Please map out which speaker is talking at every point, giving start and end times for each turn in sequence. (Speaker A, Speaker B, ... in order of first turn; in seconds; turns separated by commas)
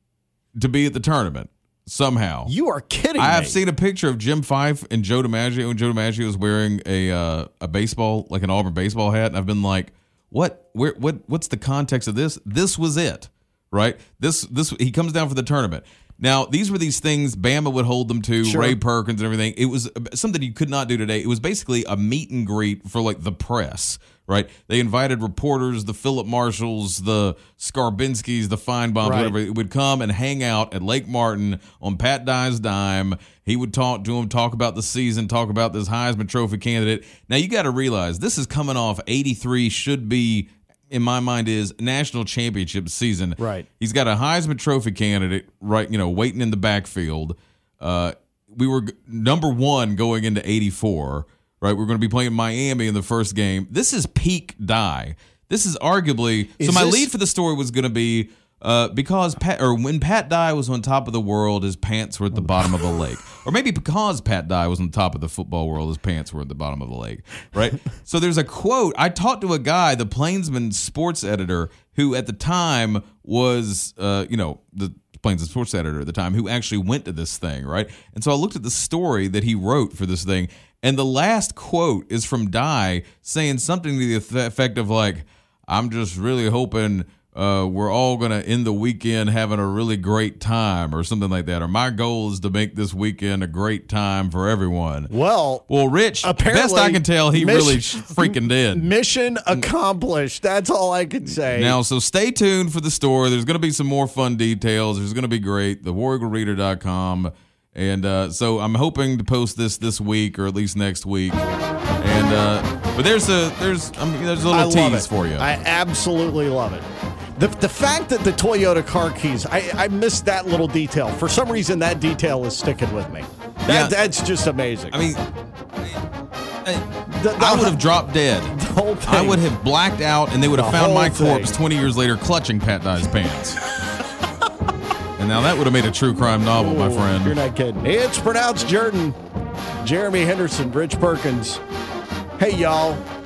Speaker A: 0.6-2.5, Speaker B: 2.5-3.6, Speaker A: 3.2-95.1, Speaker B: 18.4-18.8, Speaker B: 29.0-29.4, Speaker B: 43.4-43.7, Speaker B: 56.6-57.1, Speaker B: 95.1-95.6, Speaker A: 95.7-98.9, Speaker B: 96.2-101.8, Speaker A: 101.4-111.4, Speaker A: 112.0-115.5, Speaker B: 114.5-116.8, Speaker B: 117.4-125.0, Speaker A: 123.7-124.0, Speaker A: 124.9-125.2, Speaker A: 126.6-128.5, Speaker B: 127.1-127.8, Speaker B: 128.5-129.4, Speaker A: 129.1-133.6, Speaker B: 130.5-131.5, Speaker A: 135.2-137.3, Speaker B: 136.5-139.2, Speaker B: 139.8-141.6, Speaker B: 142.4-143.0